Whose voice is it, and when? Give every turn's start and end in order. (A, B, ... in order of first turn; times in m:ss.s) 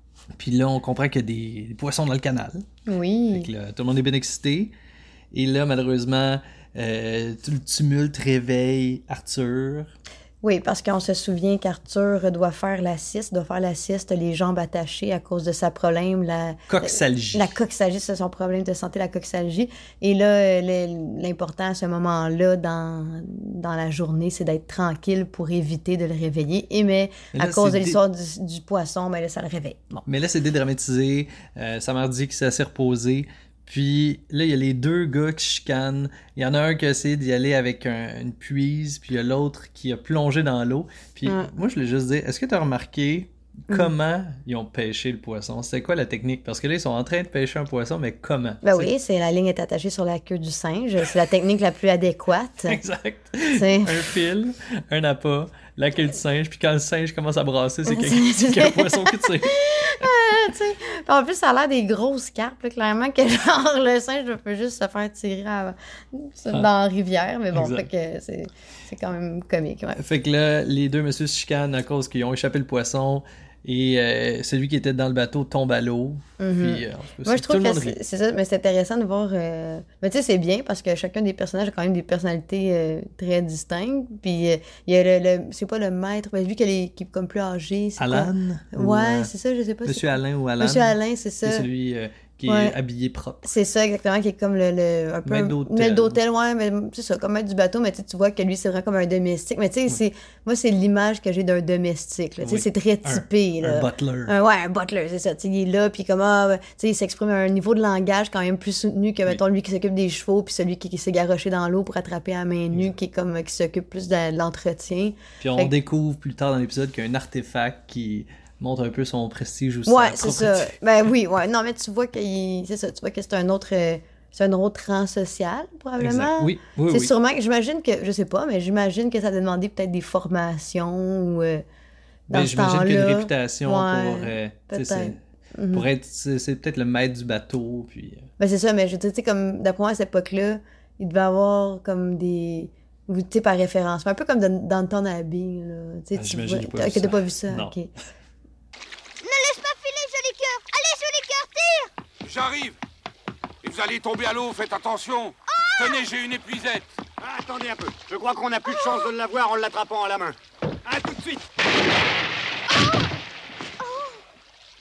0:00.3-0:02.6 A
0:02.8-0:03.5 B
0:03.3-0:04.7 A
0:05.3-0:09.9 A
0:10.4-0:30.0 B
0:16.7-0:17.6 A
0:27.3-0:28.0 A
0:30.0-0:48.9 A
0:48.6-0:52.8 B
0:52.7-1:00.1 A
0:53.5-0:54.0 B
0:57.9-1:10.0 B
1:07.5-1:07.9 A
1:10.0-1:18.0 A
1:16.4-1:31.7 B
1:28.0-1:29.3 A
1:29.8-1:33.5 A
1:32.4-1:32.8 B
1:33.4-1:55.7 B
1:35.2-1:36.2 A
1:42.4-1:44.3 A
1:55.4-2:00.7 A
1:59.9-2:11.6 B
2:06.0-2:07.1 A
2:12.3-2:15.9 B
2:12.3-2:15.2 A
2:15.7-2:18.3 A
2:18.4-2:27.9 B
2:26.1-2:27.8 A
2:29.2-2:31.9 C
2:32.2-2:32.8 D
2:33.6-2:36.9 D
2:35.5-2:36.0 C
2:37.2-2:41.4 E
2:38.7-2:39.0 C
2:43.8-2:44.2 C